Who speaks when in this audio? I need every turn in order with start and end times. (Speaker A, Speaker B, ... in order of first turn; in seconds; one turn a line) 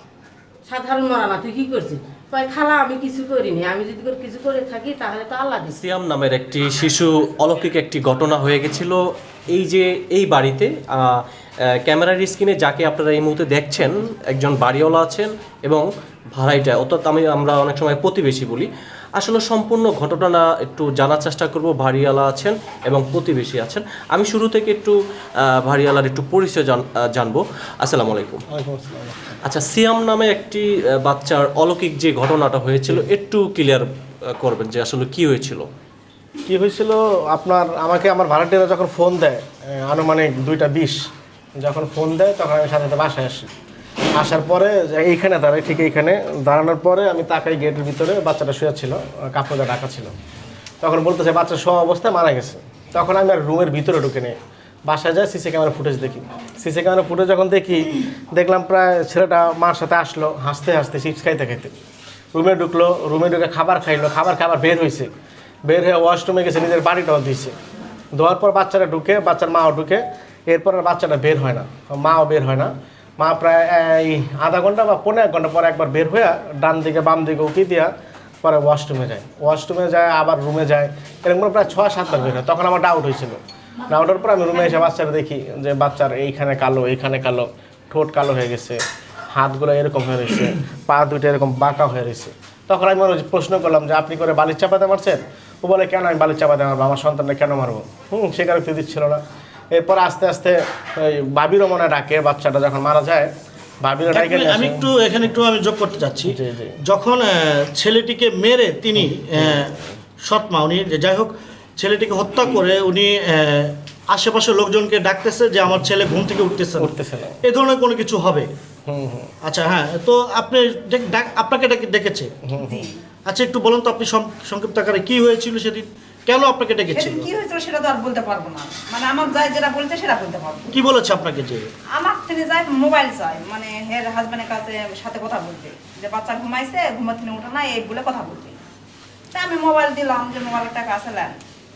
Speaker A: 0.7-5.8
Speaker B: 5.7-9.0
Speaker B: 9.5-11.2
Speaker B: 11.8-25.0
Speaker B: 25.6-28.4
Speaker C: 28.5-29.4
Speaker B: 29.5-33.9
Speaker B: 34.4-35.7
Speaker C: 36.5-41.0
Speaker C: 41.6-43.5
Speaker C: 44.1-50.1
Speaker C: 50.8-54.3
Speaker C: 54.9-61.7
Speaker C: 62.3-65.1
Speaker C: 65.7-67.5
Speaker C: 68.1-77.9
Speaker C: 78.4-83.4
Speaker C: 83.9-88.8
Speaker C: 89.3-99.2
Speaker C: 99.7-103.3
Speaker C: 103.8-104.9
Speaker D: 104.1-118.5
Speaker C: 106.2-106.8
Speaker C: 109.4-109.6
Speaker C: 116.8-117.4
Speaker C: 118.9-119.3
Speaker D: 119.4-122.3
Speaker C: 122.5-122.8
Speaker E: 122.6-123.0
Speaker D: 123.2-127.3
Speaker E: 126.9-130.7
Speaker D: 130.7-131.7
Speaker E: 132.0-138.6
Speaker E: 139.3-141.4